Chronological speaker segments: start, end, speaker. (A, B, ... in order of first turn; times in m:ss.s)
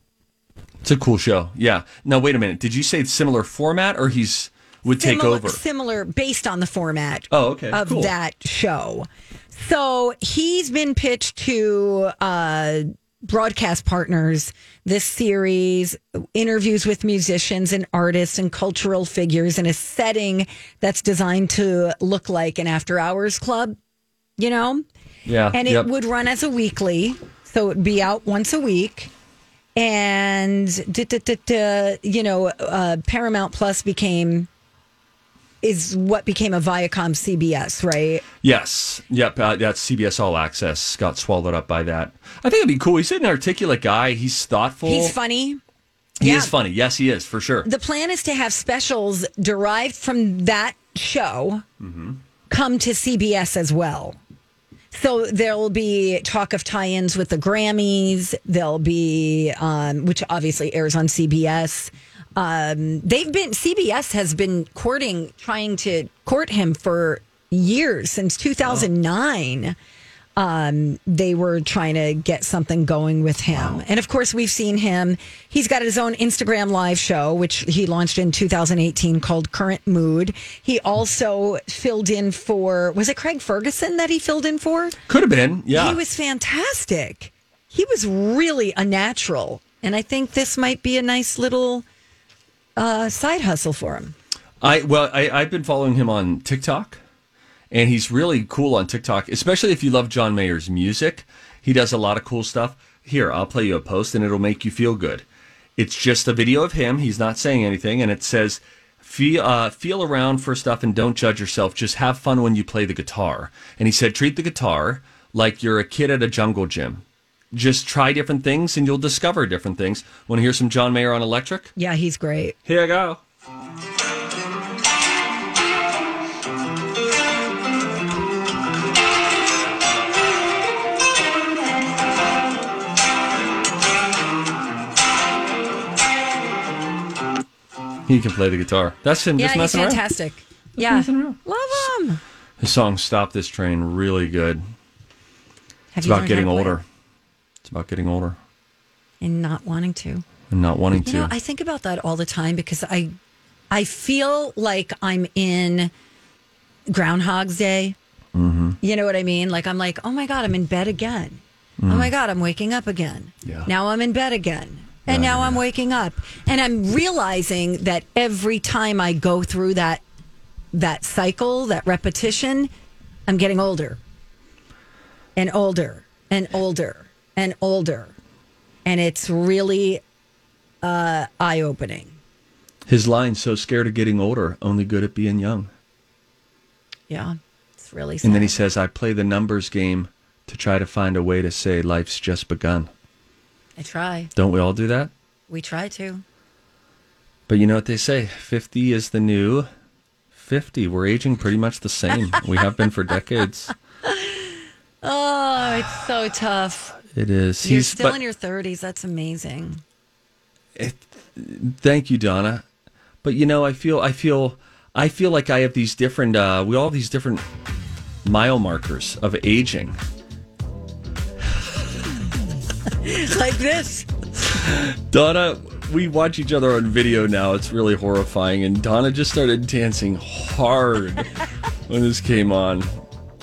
0:00.8-0:05.6 A
0:04.8-0:23.8 B
0:07.3-0:08.1 A
0:24.4-0:24.8 B
0:25.2-0:25.9 A
0:25.5-0:29.1 B
0:29.8-0:34.5 B
0:35.6-0:38.2 B
0:38.4-0:45.2 A
0:44.8-0:45.6 B
0:46.2-0:47.7 A
0:46.2-0:46.5 B
0:47.6-0:51.6 B
0:51.8-0:52.2 A
0:52.5-0:54.2 B
0:54.9-1:09.7 B
1:10.4-1:25.0 B
1:25.1-1:26.0 A
1:25.7-1:31.8 B
1:32.8-1:34.1 B
1:34.6-1:37.0 A
1:37.7-1:45.2 A
1:45.8-2:01.7 A
2:01.8-2:02.6 B
2:02.6-2:03.2 A
2:18.1-2:20.0 A
2:19.4-2:22.2 B
2:20.8-2:21.8 A
2:22.6-2:24.6 A
2:25.9-2:26.8 B
2:26.0-2:26.8 A
2:27.6-2:28.4 A
2:29.2-2:30.2 B
2:30.5-2:31.3 A
2:30.9-2:33.1 B
2:33.7-2:35.9 B
2:36.9-2:38.0 B
2:38.3-2:38.8 A
2:38.8-2:50.0 B
2:41.8-2:42.1 A
2:45.1-2:45.6 A
2:50.7-2:52.7 B
2:53.3-2:54.0 B
2:55.4-2:58.1 B
2:58.8-3:00.0 B
3:00.8-3:02.2 B
3:02.9-3:05.7 A
3:07.1-3:08.6 B
3:08.2-3:12.9 A
3:13.8-3:14.3 B
3:14.4-3:15.1 A
3:15.5-3:16.2 B
3:17.5-3:19.7 A
3:20.4-3:23.7 A
3:24.0-3:27.0 B
3:27.1-3:28.2 A
3:27.6-3:29.8 B
3:30.8-3:32.6 A
3:33.2-3:37.4 A
3:38.2-3:40.0 A
3:43.0-3:44.1 B
3:44.6-3:51.3 A
3:51.9-3:52.9 A